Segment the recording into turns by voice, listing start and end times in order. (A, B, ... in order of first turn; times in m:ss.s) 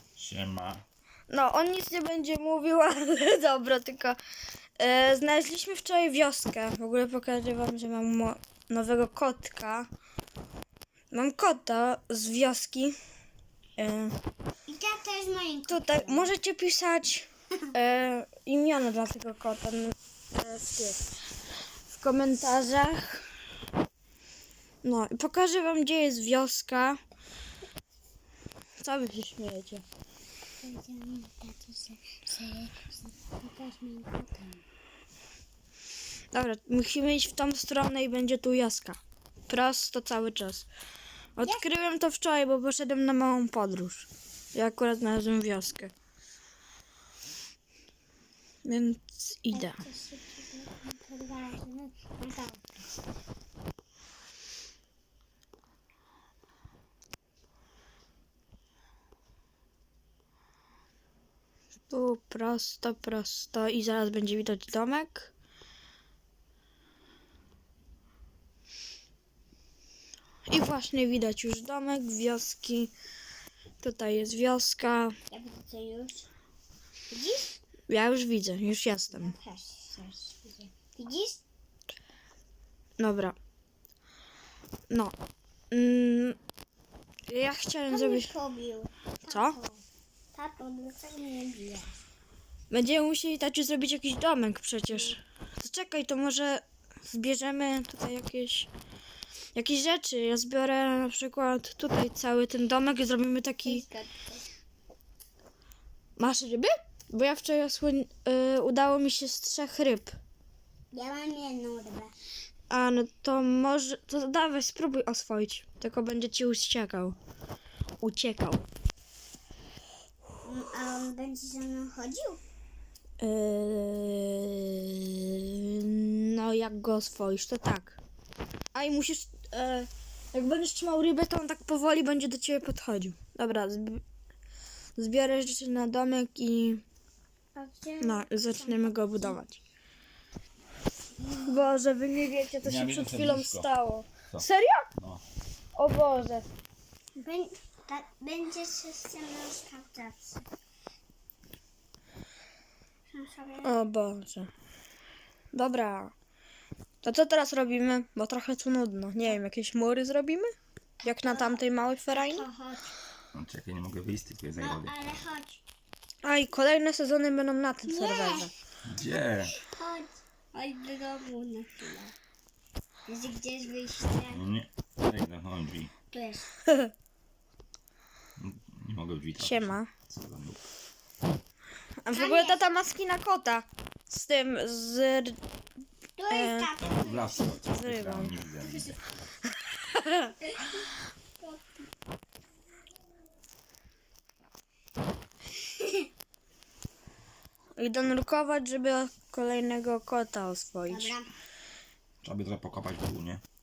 0:00.2-0:00.8 A
0:01.3-0:04.2 B
0:04.8-0:09.9 B
0:11.1-0:13.0 B
0:13.8-0:14.1 B
0:14.7-0:16.3 C
0:15.7-0:21.0 B
0:21.9-0:23.3 B
0:24.8-0:27.0 B
0:28.8-0:29.8 B
0:30.6-0:34.6 C
0:36.3-0:40.7 B
0:41.4-0:45.9 B
0:48.6-0:49.8 B
0:49.5-0:52.9 C
1:01.9-1:05.3 B
1:10.5-1:12.9 B
1:13.8-1:15.2 B
1:15.3-1:16.3 C
1:17.1-1:17.6 C
1:17.9-1:19.4 B
1:19.1-1:21.4 C
1:23.0-1:23.4 B
1:25.7-1:26.4 B
1:27.3-1:28.3 B
1:27.9-1:29.8 C
1:29.3-1:29.6 B
1:30.3-1:31.9 C
1:32.7-1:38.7 B
1:39.6-1:43.8 B
1:43.7-1:44.4 C
1:46.2-1:50.1 B
1:50.9-1:52.1 C
1:52.7-1:57.2 B
1:58.0-1:58.6 B
2:00.4-2:02.4 C
2:03.2-2:08.0 B
2:08.7-2:14.0 B
2:15.0-2:16.8 B
2:17.6-2:19.4 C
2:18.0-2:19.6 B
2:21.2-2:21.6 C
2:21.4-2:24.9 B
2:22.6-2:23.7 A
2:25.0-2:25.2 A
2:25.8-2:26.5 B
2:27.2-2:30.4 C
2:33.1-2:33.7 C
2:33.6-2:34.5 B
2:35.5-2:36.1 B
2:37.0-2:40.5 B
2:41.0-2:42.5 B
2:41.0-2:42.9 C
2:43.3-2:44.9 A
2:44.6-2:45.6 C
2:46.2-2:48.5 B
2:47.8-2:48.5 C
2:48.8-2:49.5 A
2:49.5-2:52.1 C
2:53.1-2:54.4 C
2:54.3-2:55.9 A
2:56.1-2:56.5 C
2:58.4-3:00.6 A
2:59.4-2:59.9 B
3:02.0-3:05.4 B
3:02.1-3:02.8 C
3:06.2-3:07.6 C
3:06.3-3:06.7 B
3:06.8-3:09.0 A
3:07.6-3:08.4 B
3:08.6-3:09.0 C
3:09.5-3:10.3 B
3:10.5-3:10.9 C
3:11.4-3:11.9 C
3:15.7-3:16.0 C
3:17.8-3:21.1 B
3:20.9-3:21.3 C
3:22.2-3:23.4 A